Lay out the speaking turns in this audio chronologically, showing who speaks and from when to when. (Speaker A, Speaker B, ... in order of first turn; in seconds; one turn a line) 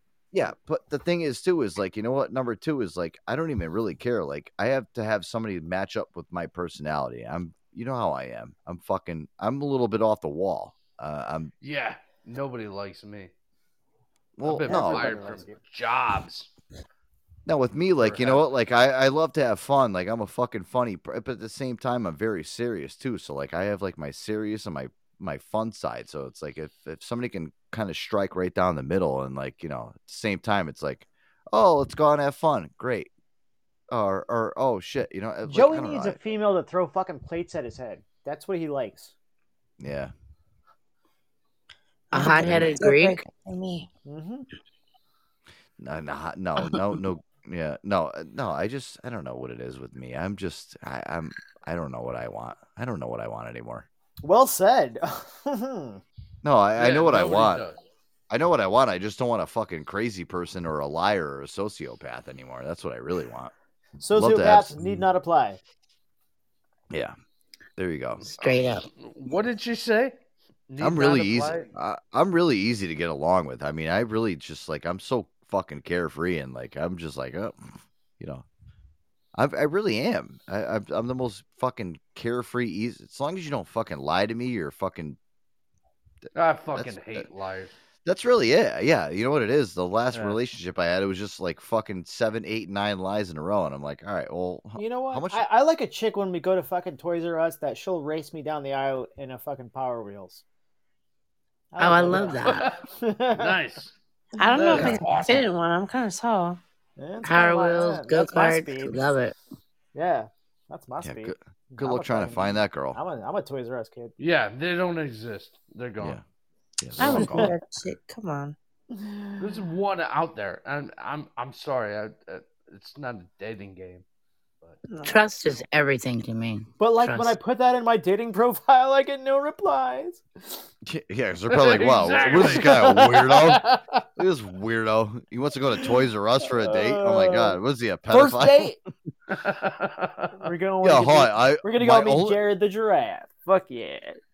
Speaker A: 0.3-11.5
Speaker B: 11.6-13.3
Speaker A: 14.4-15.2
Speaker B: 14.4-16.5
Speaker C: 14.7-15.6
Speaker A: 17.4-33.1
Speaker B: 18.0-18.4
Speaker A: 33.9-36.2
Speaker C: 35.5-39.1
Speaker A: 39.8-40.1
Speaker D: 42.1-43.2
Speaker E: 42.1-43.9
Speaker A: 42.2-42.8
Speaker C: 44.0-44.5
Speaker A: 45.8-53.9
Speaker C: 54.2-56.0
Speaker A: 56.4-57.6
Speaker B: 56.8-57.8
Speaker A: 58.3-63.5
Speaker C: 64.0-65.6
Speaker A: 64.1-64.8
Speaker A: 66.9-67.2
Speaker A: 67.8-68.2
Speaker B: 68.2-70.2
Speaker D: 68.3-68.9
Speaker B: 70.7-71.7
Speaker A: 70.8-78.5
Speaker A: 79.3-85.2
Speaker B: 86.3-87.7
Speaker A: 86.7-87.3
Speaker A: 88.0-95.5
Speaker B: 90.1-90.4
Speaker C: 94.8-100.4
Speaker C: 101.7-103.6
Speaker D: 101.8-102.7
Speaker B: 102.4-102.8
Speaker B: 103.3-103.9
Speaker E: 104.4-106.6
Speaker B: 104.5-105.4
Speaker A: 104.7-105.0
Speaker C: 107.0-109.1
Speaker D: 107.2-109.3
Speaker C: 109.9-114.1
Speaker A: 111.0-113.0
Speaker B: 114.2-116.2
Speaker A: 116.8-117.5
Speaker E: 117.0-118.5
Speaker C: 117.0-117.5
Speaker C: 118.9-119.5
Speaker B: 119.4-124.0
Speaker E: 124.8-125.3
Speaker D: 125.0-127.3
Speaker C: 126.8-130.6
Speaker A: 130.8-133.6
Speaker B: 131.5-133.1
Speaker C: 132.2-133.8
Speaker A: 134.2-138.8
Speaker C: 136.6-137.6
Speaker C: 138.1-138.8
Speaker B: 139.3-140.5
Speaker C: 140.4-144.2
Speaker A: 140.8-142.4